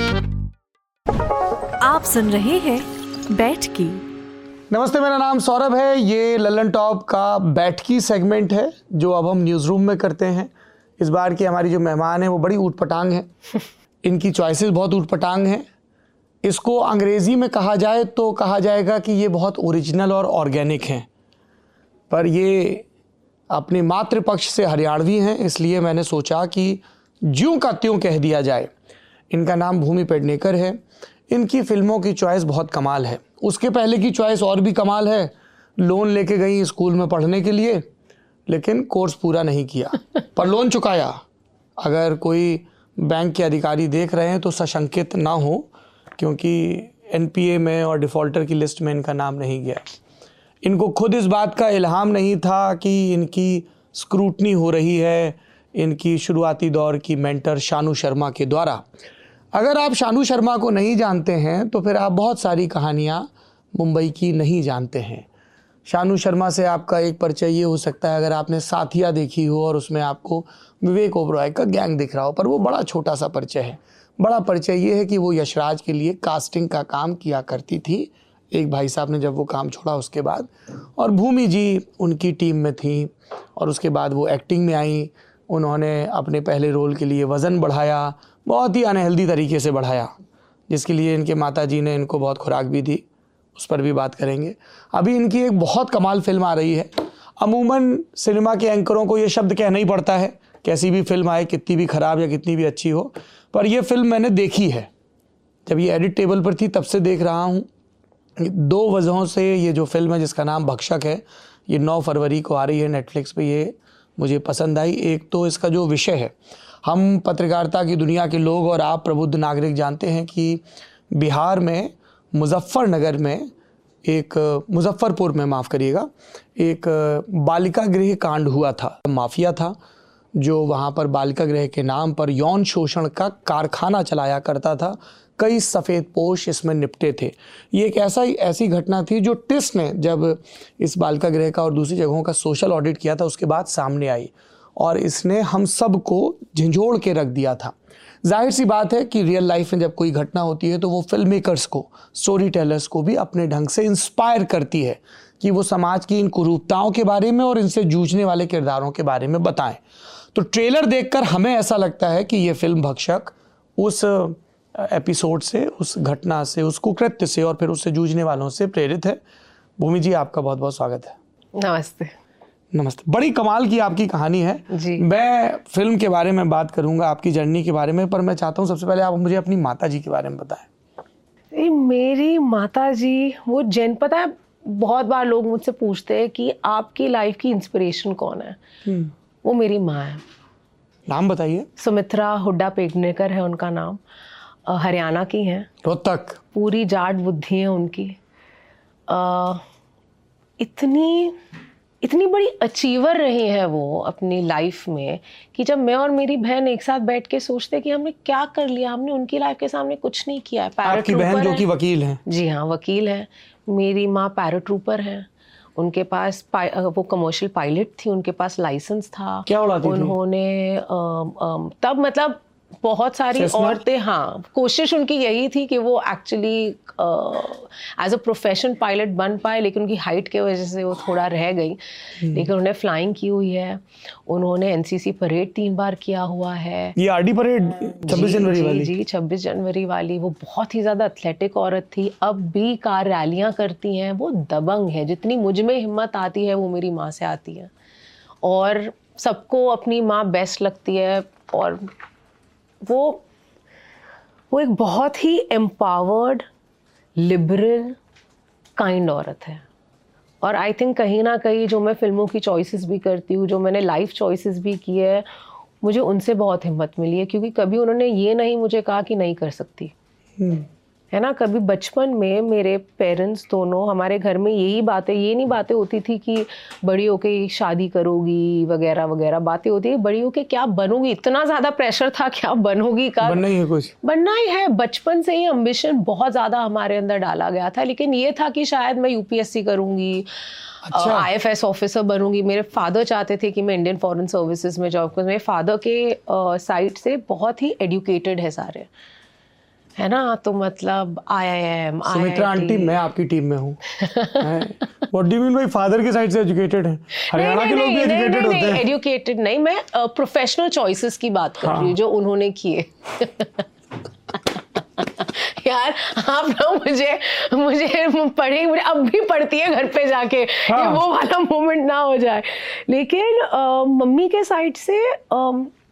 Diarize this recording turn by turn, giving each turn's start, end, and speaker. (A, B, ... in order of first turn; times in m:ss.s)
0:01.8-0:04.0 A
0:04.7-0:13.3 B
0:14.0-0:15.6 B
0:16.4-0:21.1 B
0:22.1-0:22.9 B
0:23.5-0:28.7 B
0:29.3-0:37.8 B
0:38.5-0:41.2 B
0:41.8-0:49.8 B
0:50.6-0:58.9 B
0:59.5-1:05.3 B
1:05.9-1:30.1 B
1:30.7-1:33.0 B
1:33.6-1:44.9 B
1:45.7-1:47.7 B
1:48.4-2:03.5 B
2:04.0-2:09.8 B
2:10.4-2:39.8 B
2:40.3-2:49.2 B
2:49.8-2:51.2 B
2:51.6-2:52.2 C
2:52.7-3:00.7 B
2:54.7-2:55.0 C
3:01.5-3:08.6 C
3:08.8-3:09.1 B
3:09.4-3:10.2 C
3:11.1-3:11.7 B
3:11.8-3:14.0 C
3:14.7-3:15.7 C
3:15.8-3:16.4 B
3:16.5-3:18.2 C
3:19.1-3:19.6 C
3:20.6-3:21.4 C
3:22.0-3:31.6 C
3:30.8-3:32.2 B
3:32.3-3:57.0 C
3:39.5-3:40.2 B
3:43.3-3:43.8 B
3:52.2-3:52.5 B
3:57.0-3:58.9 B
3:58.1-4:07.7 C
4:08.4-4:11.9 C
4:12.8-4:13.2 C
4:14.5-4:16.5 C
4:17.2-4:18.0 C
4:18.8-4:19.6 C
4:20.4-4:25.3 C
4:25.8-4:29.9 C
4:30.4-4:30.7 B
4:31.1-4:43.4 C
4:43.2-4:43.9 B
4:44.0-4:58.9 C
4:50.8-4:51.3 B
5:00.0-5:03.0 C
5:02.1-5:03.8 B
5:04.0-5:04.4 C
5:04.4-5:08.9 B
5:07.2-5:13.7 C
5:11.6-5:12.0 B
5:14.5-5:25.7 C
5:20.7-5:21.0 B